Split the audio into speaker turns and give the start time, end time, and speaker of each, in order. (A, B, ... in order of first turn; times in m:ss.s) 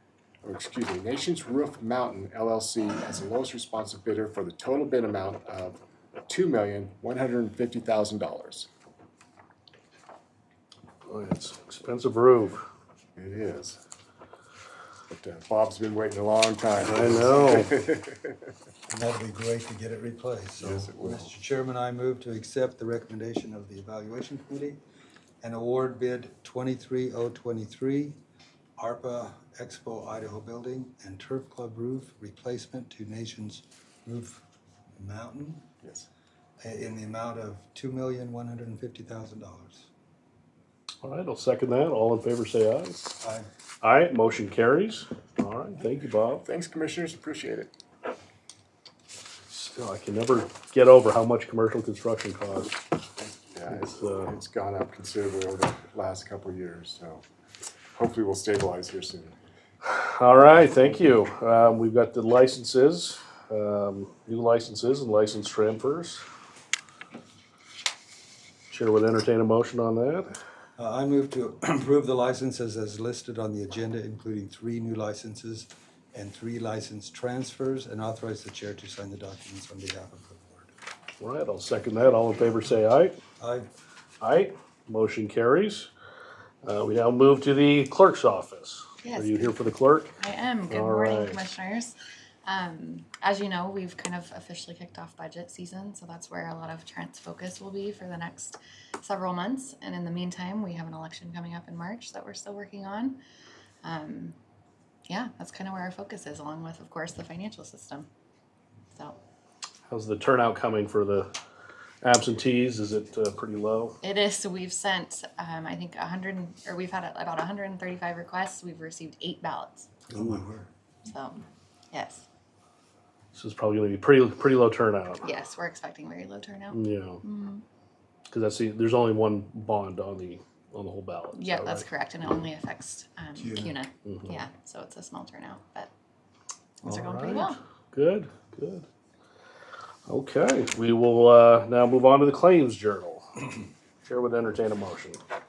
0:00.4-0:08.7 A
0:11.0-0:12.6 B
0:13.2-0:13.8 A
0:15.1-0:18.5 A
0:16.8-0:17.8 B
0:18.9-0:24.8 C
0:20.6-0:21.3 A
0:25.4-0:28.2 C
0:28.8-0:35.7 C
0:35.8-0:36.1 A
0:36.6-0:39.9 C
0:41.0-0:43.2 B
0:43.2-0:43.5 C
0:43.8-0:46.4 B
0:46.4-0:47.7 A
0:49.5-0:52.8 B
0:53.2-0:57.2 A
0:53.7-0:54.4 B
0:58.0-0:59.4 A
0:59.8-1:06.2 B
1:08.7-1:10.3 B
1:10.8-1:20.7 C
1:21.2-1:23.1 B
1:23.4-1:23.7 C
1:24.2-1:25.9 B
1:26.6-1:30.2 B
1:29.0-1:29.6 D
1:30.2-1:43.2 D
1:30.7-1:31.4 B
1:43.8-1:44.4 D
1:45.1-1:48.1 D
1:48.9-1:49.2 D
1:49.9-1:51.3 B
1:52.0-1:54.0 B
1:54.0-1:59.9 D
2:00.1-2:00.7 C
2:01.0-2:02.2 D
2:03.3-2:05.2 B
2:05.2-2:07.6 D
2:06.7-2:07.2 B
2:08.3-2:11.8 B
2:11.3-2:15.9 D
2:13.4-2:13.7 C
2:14.1-2:14.4 B
2:16.8-2:17.6 D
2:17.0-2:18.8 B
2:20.1-2:23.5 B
2:24.0-2:25.2 B